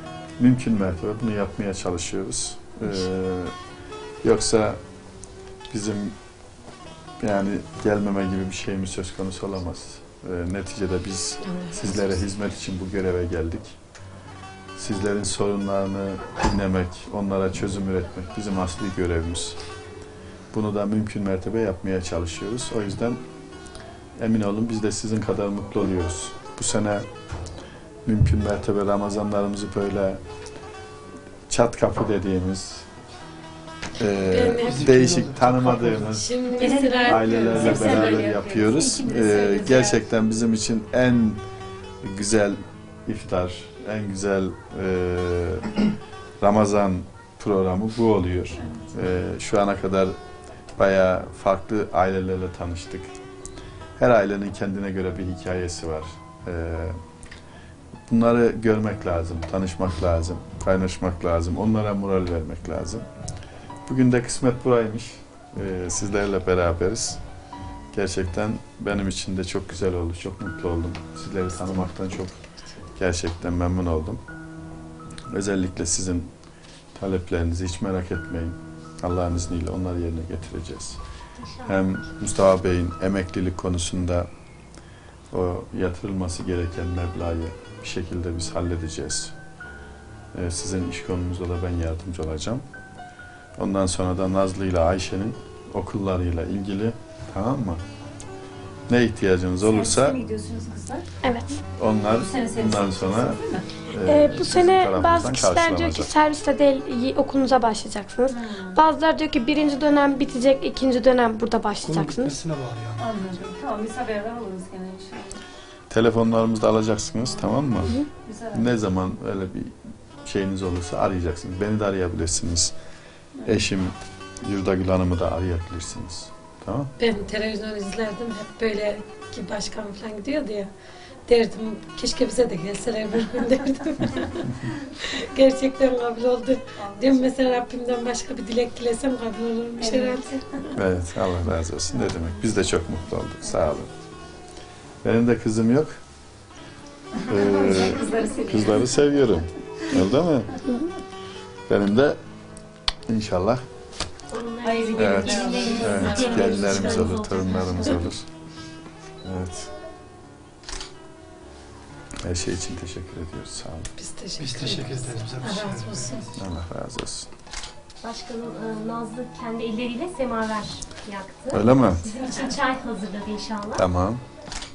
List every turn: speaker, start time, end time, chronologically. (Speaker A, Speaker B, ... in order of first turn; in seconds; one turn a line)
Speaker A: 0.4-3.5
Speaker A: 4.2-4.8
Speaker A: 5.7-6.1
Speaker A: 7.2-13.8
Speaker A: 14.8-19.6
Speaker A: 20.5-23.2
Speaker A: 24.2-27.1
Speaker A: 28.0-30.2
Speaker A: 31.5-32.9
Speaker A: 34.0-36.3
Speaker B: 34.3-34.8
Speaker C: 34.6-36.1
Speaker B: 36.1-37.2
Speaker D: 36.5-40.0
Speaker A: 36.9-41.4
Speaker C: 37.3-38.0
Speaker A: 42.0-45.8
Speaker A: 46.4-50.1
Speaker A: 50.8-53.1
Speaker A: 54.0-57.0
Speaker A: 58.1-63.0
Speaker A: 63.9-67.2
Speaker A: 67.9-72.4
Speaker A: 73.0-74.2
Speaker A: 75.3-76.3
Speaker A: 76.9-81.0
Speaker E: 81.4-81.8
Speaker A: 81.7-84.3
Speaker A: 85.3-89.3
Speaker A: 90.3-92.6
Speaker A: 93.6-97.8
Speaker A: 98.9-100.2
Speaker D: 99.6-101.0
Speaker F: 101.2-101.6
Speaker A: 101.8-106.1
Speaker D: 102.1-103.7
Speaker F: 104.0-112.3
Speaker D: 108.3-108.8
Speaker C: 111.8-113.2
Speaker D: 113.0-115.4
Speaker A: 115.9-118.0
Speaker D: 118.2-118.7
Speaker A: 118.5-122.7
Speaker A: 123.4-126.9
Speaker B: 127.0-130.7
Speaker B: 131.3-140.4
Speaker D: 136.8-137.4
Speaker D: 139.8-140.2
Speaker A: 140.7-143.9
Speaker A: 145.0-146.0
Speaker D: 147.2-148.9
Speaker A: 147.3-150.6
Speaker A: 151.7-152.2
Speaker A: 153.1-153.6
Speaker E: 154.3-158.0
Speaker D: 154.6-157.2
Speaker A: 154.9-158.2
Speaker A: 159.2-159.7
Speaker A: 162.2-163.9
Speaker B: 164.0-166.2
Speaker C: 164.4-166.4
Speaker A: 166.3-167.3
Speaker E: 168.0-173.8
Speaker A: 171.5-172.0
Speaker A: 173.7-174.2